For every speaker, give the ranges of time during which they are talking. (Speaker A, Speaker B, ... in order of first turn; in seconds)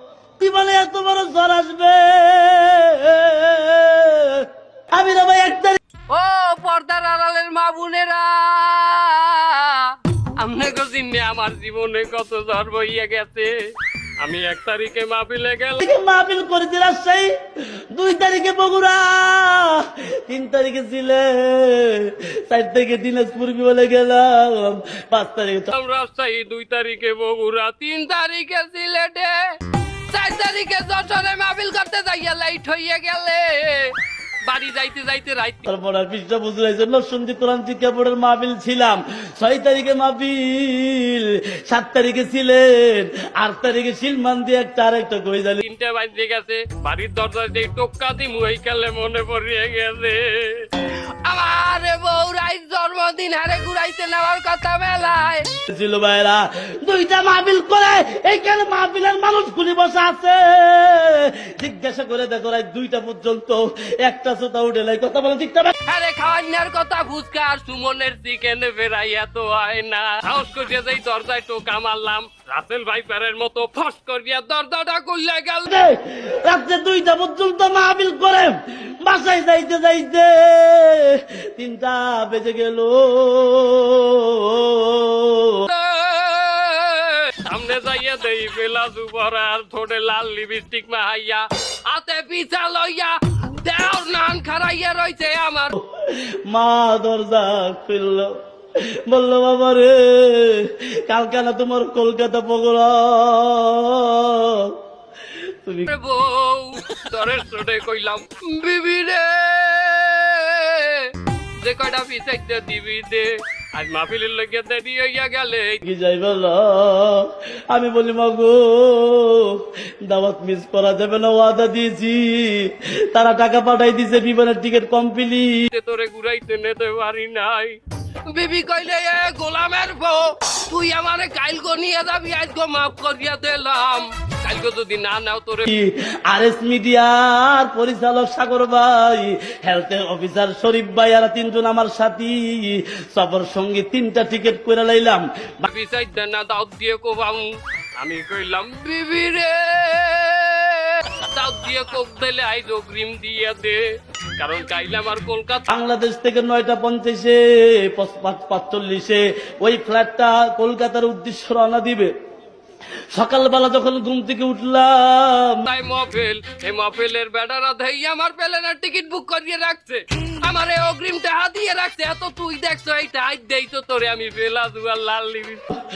Speaker A: 0.4-5.8, 15.8-17.3, 17.9-25.7, 35.7-45.6, 55.7-65.8, 75.7-85.7, 95.8-98.3, 99.1-104.8, 105.6-105.9, 115.8-119.6, 120.1-125.5, 135.7-145.7, 155.7-162.1, 163.1-165.7
Speaker B: 6.1-13.5, 14.2-15.9, 25.7-29.4, 30.1-33.9, 34.5-35.7, 45.6-50.7, 51.2-55.5, 65.9-75.7, 85.7-95.7, 105.8-115.8, 125.7-127.8, 128.3-135.7, 145.7-147.5, 148.0-153.8, 154.4-155.7, 165.6-175.7